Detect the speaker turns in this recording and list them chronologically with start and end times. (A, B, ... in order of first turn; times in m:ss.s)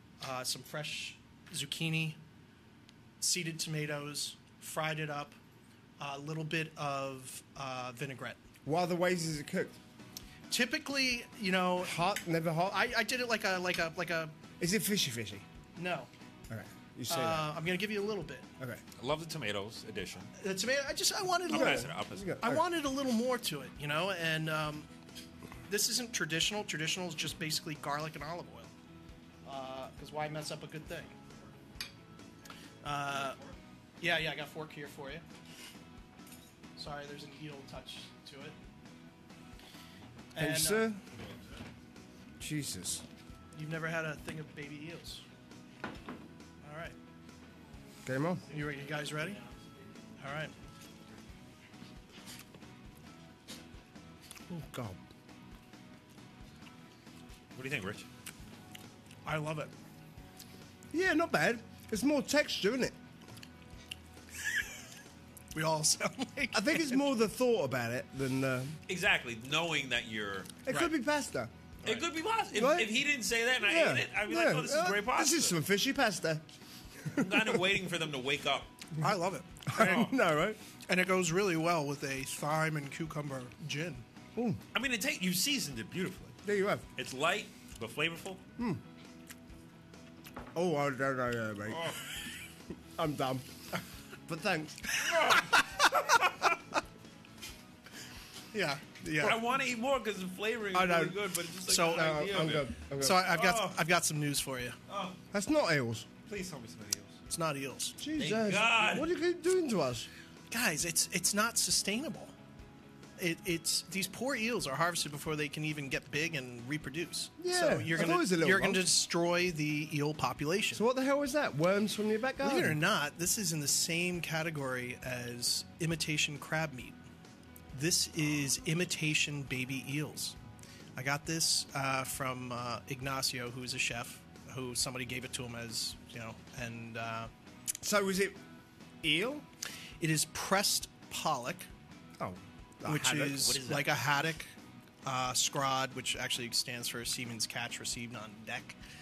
0:00.2-0:02.2 A
0:03.2-0:05.4 A
0:06.0-0:08.4 A
0:08.6-0:09.8 B
0:10.5-0:12.0 A
0:11.8-0:12.8 B
0:12.7-0:14.3 A
0:14.6-0:15.4 B
0:15.8-0:16.1 A
0:16.5-0:17.6 B
0:17.1-0:18.5 A
0:19.0-0:20.3 C
0:20.4-0:24.9 A
0:21.5-0:22.4 C
0:21.5-0:22.6 B
0:25.7-0:28.7 A
0:29.4-0:31.2 A
0:32.8-0:33.4 A
0:34.0-0:35.2 A
0:36.8-0:38.6 A
0:40.3-0:41.0 A
0:40.4-0:41.0 B
0:42.4-0:43.0 B
0:43.5-0:45.2 A
0:46.6-0:47.0 A
0:48.0-0:48.4 B
0:48.5-0:49.7 C
0:48.5-0:49.4 A
0:50.2-0:50.5 A
0:54.5-0:55.0 B
0:57.5-0:58.1 C
0:59.2-0:59.7 A
1:00.9-1:03.0 B
1:05.5-1:07.1 A
1:06.5-1:08.8 B
1:08.9-1:10.6 C
1:10.6-1:11.5 B
1:11.8-1:15.6 C
1:12.5-1:13.0 B
1:13.6-1:16.4 B
1:17.0-1:17.7 B
1:17.1-1:18.7 C
1:19.0-1:20.1 A
1:19.7-1:20.6 B
1:19.8-1:20.1 C
1:20.9-1:24.0 A
1:24.4-1:24.6 B
1:24.7-1:26.4 C
1:26.4-1:26.8 B
1:27.0-1:28.4 C
1:28.6-1:28.8 B
1:30.5-1:32.0 B
1:31.7-1:32.0 C
1:33.0-1:33.5 B
1:34.3-1:35.1 B
1:35.0-1:36.4 C
1:38.5-1:39.4 A
1:39.2-1:43.8 C
1:40.7-1:41.2 B
1:41.7-1:42.2 A
1:41.9-1:43.3 B
1:43.0-1:44.8 A
1:44.9-1:45.2 C
1:45.3-1:46.1 B
1:46.2-1:47.2 C
1:47.3-1:48.0 A
1:48.0-1:50.1 B
1:48.2-1:49.1 C
1:50.5-1:52.3 A
1:53.2-2:00.8 A
1:57.4-1:58.8 B
2:00.7-2:02.8 B
2:02.4-2:07.0 A
2:07.7-2:10.4 A
2:11.0-2:17.3 A
2:17.8-2:18.4 B
2:19.0-2:19.4 B
2:20.0-2:21.7 A
2:22.2-2:23.5 B
2:22.8-2:24.5 A
2:23.3-2:23.9 C
2:25.0-2:28.8 A